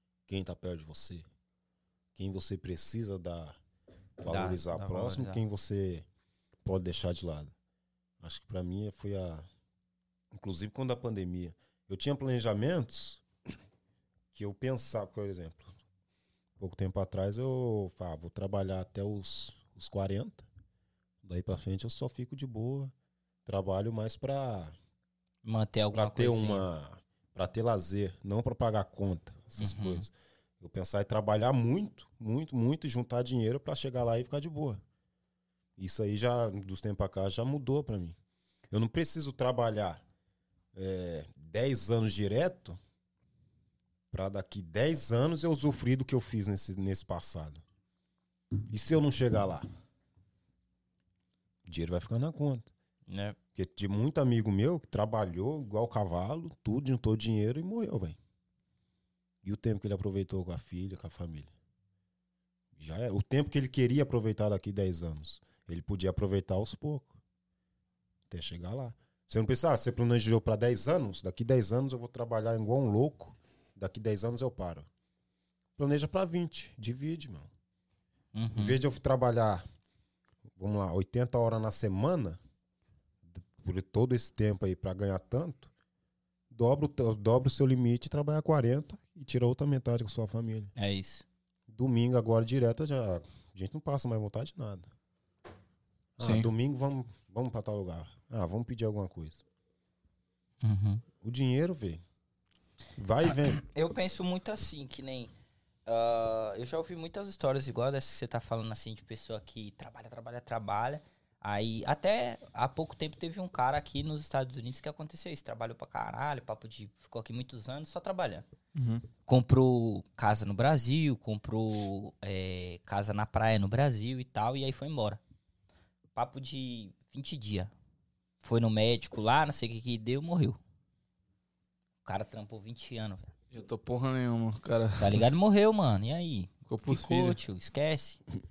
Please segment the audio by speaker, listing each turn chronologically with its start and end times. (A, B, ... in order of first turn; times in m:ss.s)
0:00.3-0:01.3 A
0:02.2-0:03.6 A
0:04.2-0:06.0 A
0:04.3-0:05.4 B
0:06.6-0:07.5 A
0:08.2-0:09.5 A
0:10.3-0:13.6 A
0:14.3-0:15.7 A
0:16.6-0:20.4 A
0:21.2-0:22.9 A
0:23.4-0:24.8 A
0:25.4-0:26.6 B
0:25.9-0:34.8 A
0:29.6-0:30.0 B
0:35.8-0:38.2 A
0:38.7-0:40.0 A
0:40.7-0:42.8 A
0:44.1-0:47.6 A
0:48.7-0:49.7 A
0:51.6-0:52.7 A
0:53.1-0:53.4 B
0:53.5-0:58.2 A
0:59.4-1:01.5 A
1:02.7-1:07.2 A
1:08.3-1:14.9 A
1:15.8-1:17.5 A
1:18.3-1:18.8 B
1:18.5-1:19.6 A
1:20.6-1:22.4 A
1:23.2-1:25.7 A
1:26.5-1:30.7 A
1:30.8-1:31.2 B
1:31.7-1:34.9 A
1:36.2-1:39.4 A
1:36.2-1:36.5 C
1:40.6-1:41.0 B
1:41.2-1:42.0 A
1:43.0-1:43.6 A
1:43.5-1:45.3 B
1:45.8-1:58.4 B
1:58.7-1:59.0 C
1:59.3-2:05.2 B
2:06.2-2:07.7 B
2:08.4-2:10.6 B
2:12.0-2:13.3 B
2:13.5-2:15.2 C
2:15.0-2:18.2 B
2:16.7-2:17.4 C